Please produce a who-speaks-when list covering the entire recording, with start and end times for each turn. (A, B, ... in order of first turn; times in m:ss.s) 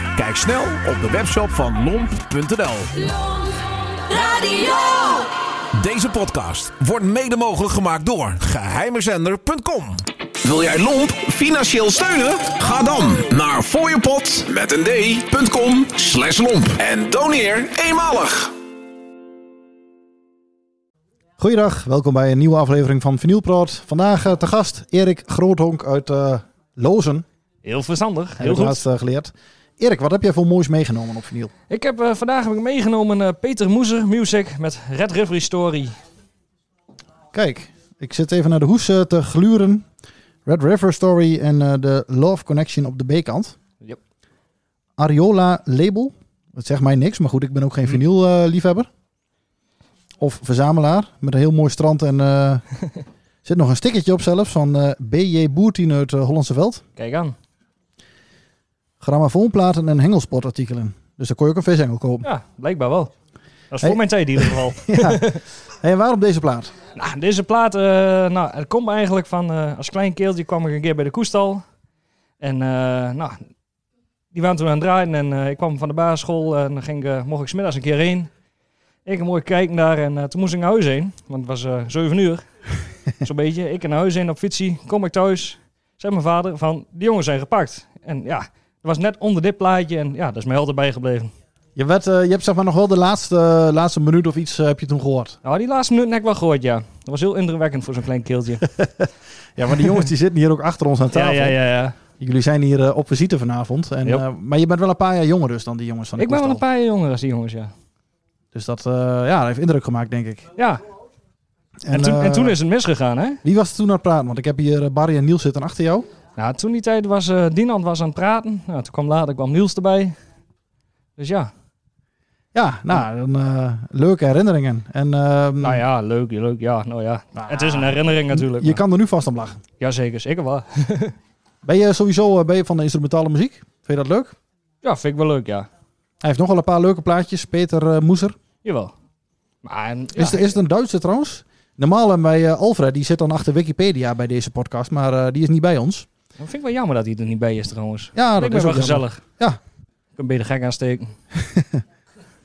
0:00.2-0:03.1 A
0:04.1-0:18.5 A
0:21.4-0:27.2 B
0:27.6-0:28.8 C
0:28.4-0:31.5 B
0:31.7-0:36.0 C
0:37.3-0:39.8 B
0:40.4-0:43.6 B
0:45.0-0:48.9 B
0:50.2-0:52.6 B
0:53.4-0:56.8 B
0:57.0-0:57.3 C
0:59.0-1:02.3 B
1:02.2-1:03.1 C
1:03.7-1:05.4 C
1:03.8-1:05.3 B
1:05.8-1:06.7 B
1:06.9-1:11.6 C
1:12.4-1:13.4 C
1:14.3-1:18.3 C
1:19.0-1:22.4 C
1:23.2-1:31.3 C
1:31.8-1:35.4 B
1:35.4-1:38.7 C
1:38.8-1:41.6 B
1:41.1-1:42.0 C
1:42.2-1:46.6 B
1:46.2-1:47.7 C
1:48.5-1:50.5 B
1:50.6-1:50.8 C
1:51.8-1:52.6 B
1:51.9-1:53.4 C
1:53.4-1:56.0 B
1:56.4-2:00.2 C
2:01.2-2:01.5 C
2:02.5-2:05.8 B
2:05.6-2:08.8 C
2:07.4-2:09.6 B
2:09.8-2:11.2 C
2:11.6-2:14.4 B
2:14.8-2:15.7 C
2:16.2-2:18.4 B
2:18.6-2:18.9 C
2:19.6-2:20.5 C
2:20.2-2:26.1 B
2:26.4-2:29.2 C
2:28.2-2:29.6 B
2:30.2-2:31.2 C
2:31.5-2:31.8 B